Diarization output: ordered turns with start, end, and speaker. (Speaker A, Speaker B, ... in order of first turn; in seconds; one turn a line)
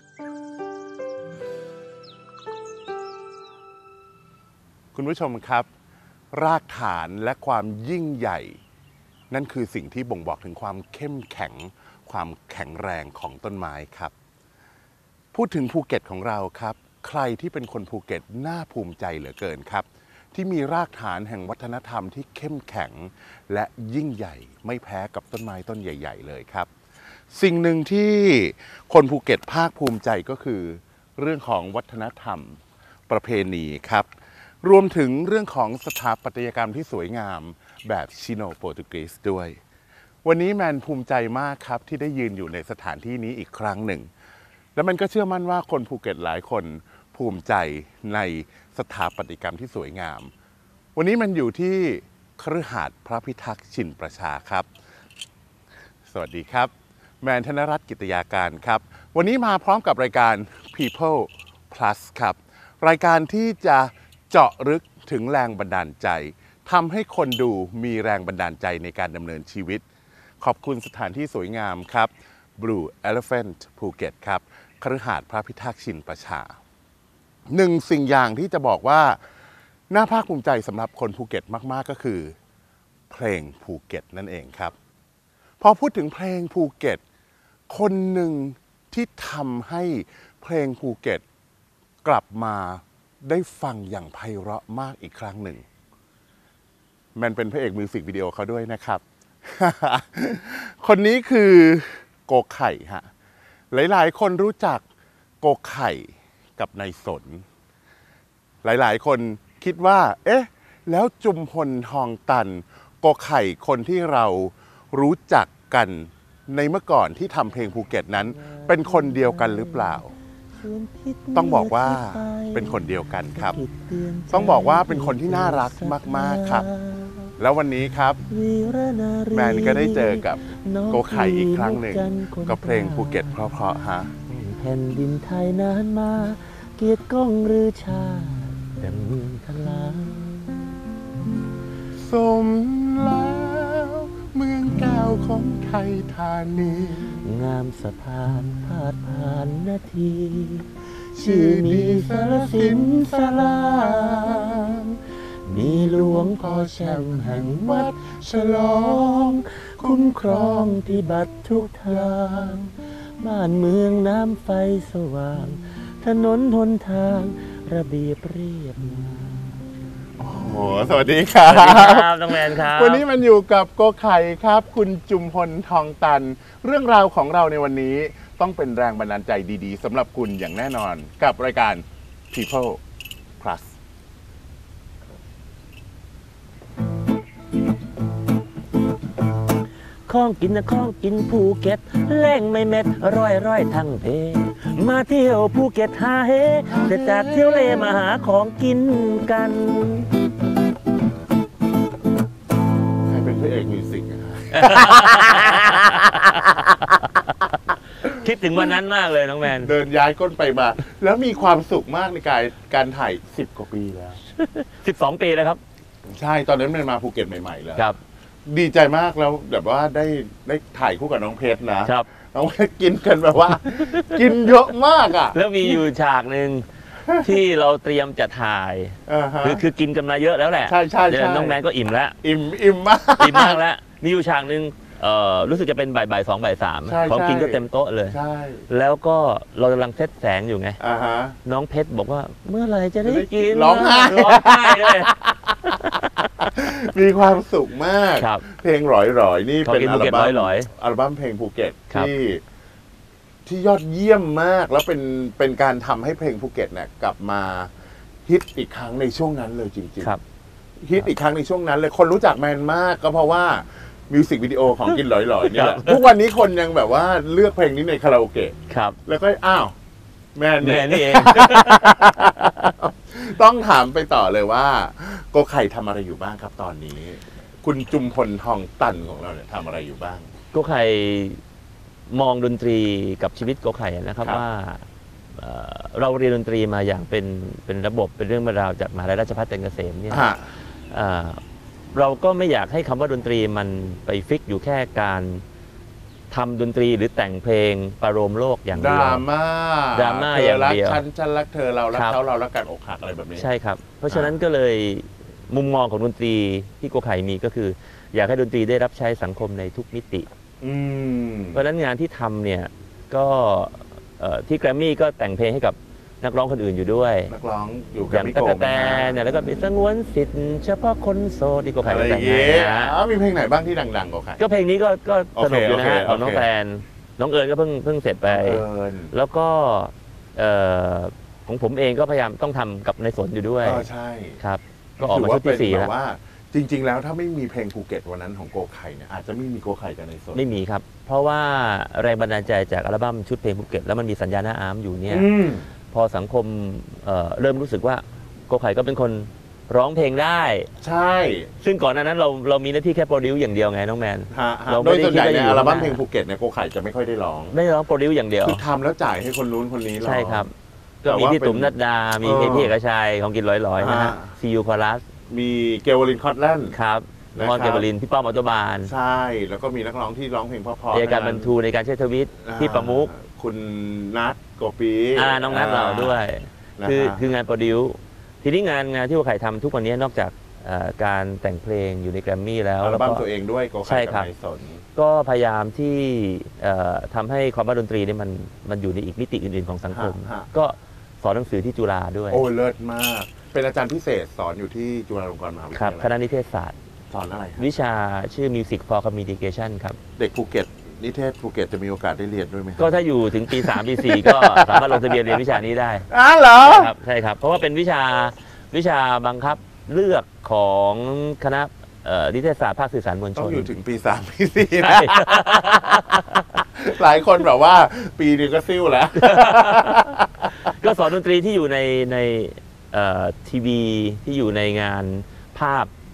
Speaker A: 4.9-5.7
Speaker A: 6.3-8.6
Speaker A: 9.3-14.1
Speaker A: 15.3-26.7
Speaker A: 27.3-34.1
Speaker A: 34.6-39.6
Speaker A: 40.2-44.1
Speaker A: 44.7-50.3
Speaker A: 51.0-54.7
Speaker A: 56.1-69.8
Speaker A: 70.4-76.5
Speaker A: 77.5-79.2
Speaker A: 79.9-82.3
Speaker A: 83.1-84.7
Speaker A: 85.6-87.0
Speaker A: 87.7-91.2
Speaker A: 92.0-95.6
Speaker A: 97.1-103.1
Speaker A: 103.7-104.8
Speaker A: 105.4-107.4
Speaker A: 108.6-120.1
Speaker B: 118.1-127.3
Speaker A: 121.3-123.6
Speaker A: 124.3-126.7
Speaker A: 127.4-128.2
Speaker B: 128.2-133.4
Speaker A: 129.3-134.1
Speaker B: 134.3-140.8
Speaker A: 141.9-147.2
Speaker B: 147.2-154.3
Speaker A: 151.1-155.0
Speaker B: 155.4-169.6
Speaker A: 156.1-160.8
Speaker A: 161.9-162.6
Speaker A: 170.2-182.8
Speaker B: 171.4-173.1
Speaker A: 183.4-183.7
Speaker B: 190.1-200.1
Speaker A: 196.7-198.0
Speaker A: 203.0-206.4
Speaker B: 204.5-207.3
Speaker B: 208.0-209.7
Speaker A: 209.4-214.2
Speaker B: 214.3-215.6
Speaker A: 216.0-217.9
Speaker A: 218.4-225.8
Speaker B: 223.7-224.2
Speaker B: 225.3-232.2
Speaker A: 229.1-229.7
Speaker A: 230.7-231.6
Speaker A: 232.2-233.6
Speaker B: 233.2-238.2
Speaker A: 236.8-238.7
Speaker B: 238.7-240.8
Speaker A: 240.8-241.4
Speaker B: 241.4-245.1
Speaker A: 243.0-245.7
Speaker B: 245.7-245.9
Speaker A: 246.4-252.4
Speaker B: 248.2-248.4
Speaker B: 249.6-250.7
Speaker A: 253.4-257.7
Speaker A: 258.2-260.1
Speaker A: 260.8-268.5
Speaker B: 265.4-266.0
Speaker B: 268.7-269.0
Speaker A: 269.1-269.7
Speaker A: 270.4-280.3
Speaker B: 270.6-272.0
Speaker B: 280.5-281.4
Speaker B: 282.1-290.3
Speaker A: 290.1-290.5
Speaker B: 290.9-291.4
Speaker B: 291.9-295.4
Speaker B: 296.3-299.2
Speaker A: 298.7-303.4
Speaker B: 299.9-301.0
Speaker B: 301.9-302.2
Speaker B: 303.4-310.3
Speaker A: 304.1-304.4
Speaker A: 310.6-311.6
Speaker B: 311.5-317.3
Speaker A: 317.3-319.2
Speaker B: 318.1-323.0
Speaker A: 321.8-324.4
Speaker B: 324.4-333.9
Speaker A: 325.4-326.5
Speaker A: 328.3-329.1
Speaker A: 333.6-334.4
Speaker B: 334.4-335.9
Speaker A: 335.0-340.4
Speaker B: 340.3-345.3
Speaker A: 345.1-345.7
Speaker B: 345.9-350.7
Speaker A: 350.8-351.5
Speaker B: 351.6-356.0
Speaker A: 354.3-357.5
Speaker B: 357.5-358.6
Speaker A: 358.4-360.5
Speaker B: 360.0-360.5
Speaker A: 361.0-362.7
Speaker B: 361.0-365.0
Speaker A: 363.8-364.3
Speaker A: 365.3-366.7
Speaker B: 366.7-368.9
Speaker A: 367.3-367.9
Speaker A: 368.8-371.5
Speaker B: 370.9-373.1
Speaker A: 372.4-376.2
Speaker B: 375.1-383.2
Speaker A: 376.8-377.3
Speaker A: 382.8-384.8
Speaker B: 383.8-384.3
Speaker B: 384.9-392.4
Speaker A: 389.9-390.5
Speaker A: 392.3-396.1
Speaker B: 395.7-396.7
Speaker A: 397.1-397.7
Speaker B: 397.6-400.0
Speaker A: 400.2-406.9
Speaker B: 402.8-413.7
Speaker A: 413.4-420.7
Speaker B: 414.8-416.6
Speaker B: 419.2-425.9